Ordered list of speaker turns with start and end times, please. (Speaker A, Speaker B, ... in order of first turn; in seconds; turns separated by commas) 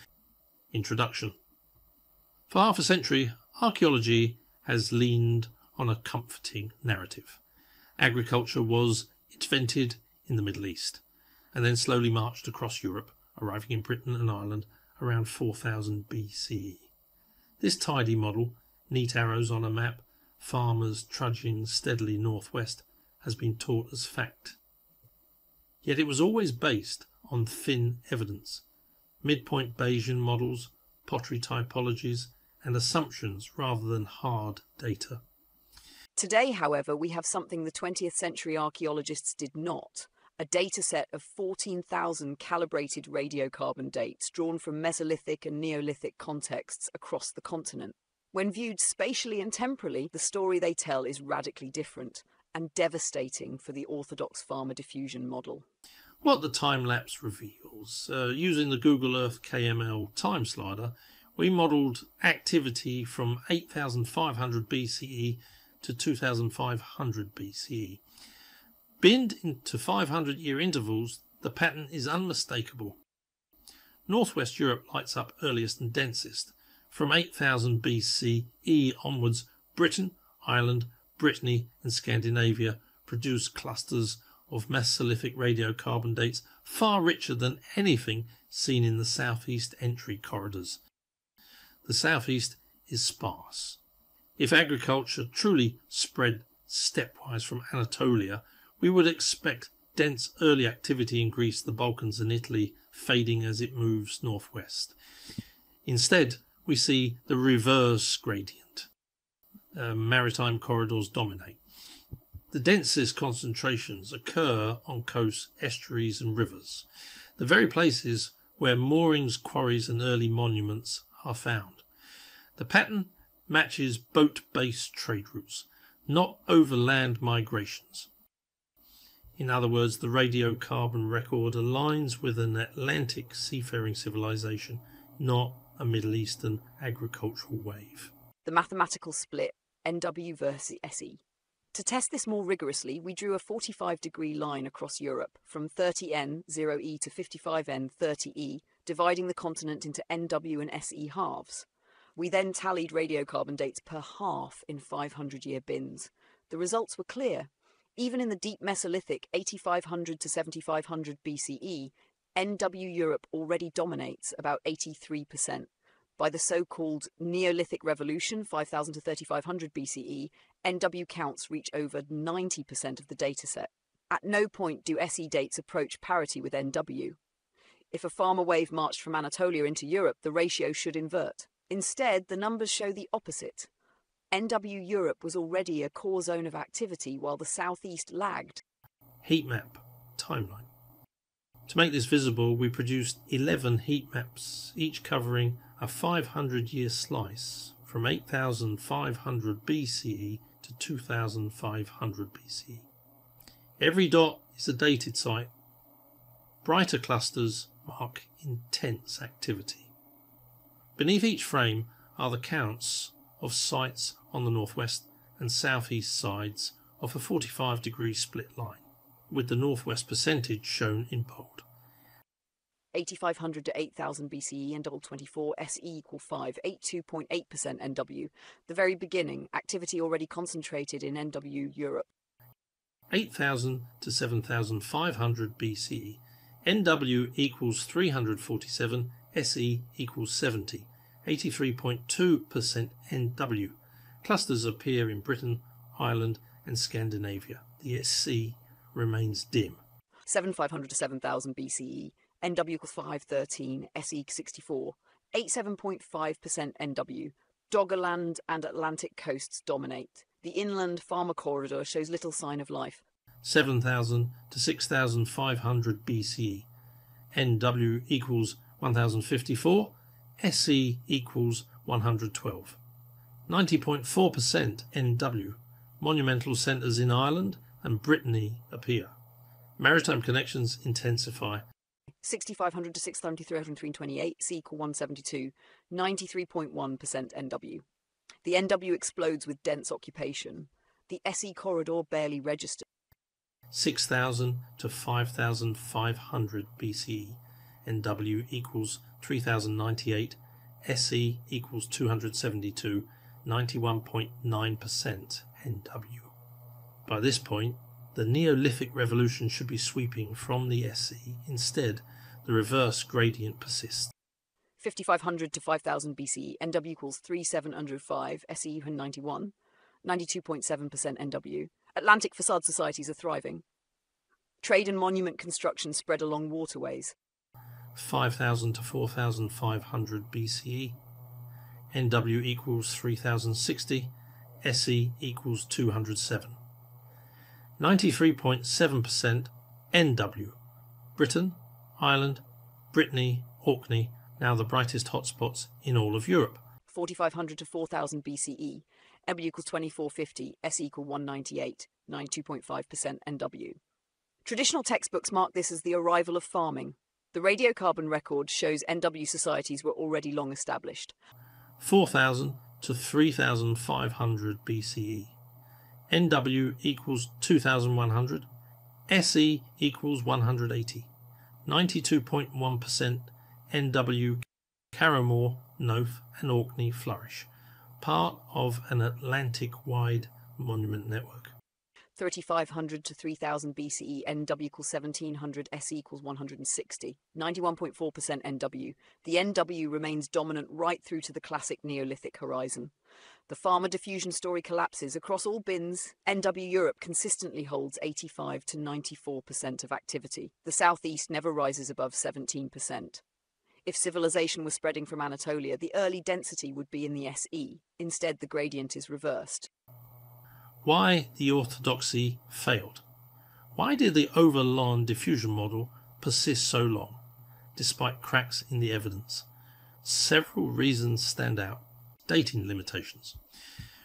Speaker A: 0.7-1.4, Speaker A: 2.5-7.4, Speaker A: 8.0-16.9, Speaker A: 17.6-24.6, Speaker A: 25.8-28.6, Speaker A: 29.2-35.2, Speaker B: 36.2-55.7, Speaker A: 56.2-68.0, Speaker A: 69.0-73.0, Speaker A: 74.1-90.8, Speaker A: 91.8-93.8, Speaker A: 94.4-105.0, Speaker A: 105.8-108.9, Speaker A: 109.7-111.6, Speaker A: 112.5-116.9, Speaker A: 117.4-121.8, Speaker A: 122.6-128.1, Speaker A: 129.4-138.1, Speaker B: 138.4-141.2, Speaker B: 141.7-177.2, Speaker B: 177.9-183.7, Speaker B: 184.3-188.6, Speaker A: 189.2-190.7, Speaker A: 191.7-202.9, Speaker A: 203.8-205.5, Speaker A: 206.6-209.9, Speaker A: 211.0-221.7, Speaker B: 222.9-232.1, Speaker A: 233.1-249.8, Speaker B: 250.3-263.0, Speaker A: 263.4-266.7, Speaker A: 267.3-272.8, Speaker A: 273.5-279.1, Speaker A: 279.8-281.6, Speaker B: 282.2-287.8, Speaker B: 288.4-292.9, Speaker A: 293.7-306.3, Speaker A: 307.1-314.1, Speaker B: 314.8-323.6, Speaker B: 324.6-327.1, Speaker A: 327.9-331.0, Speaker A: 331.9-336.6, Speaker A: 337.8-340.6, Speaker A: 341.2-346.6, Speaker B: 346.9-353.8, Speaker B: 354.4-361.1, Speaker A: 361.8-365.3, Speaker A: 366.1-368.5, Speaker A: 369.1-371.1, Speaker A: 371.7-377.5, Speaker A: 378.0-381.6, Speaker B: 382.2-392.9, Speaker B: 393.5-403.2, Speaker B: 403.9-409.7, Speaker A: 410.8-413.0, Speaker A: 413.8-417.2, Speaker A: 417.8-419.5, Speaker A: 420.0-423.4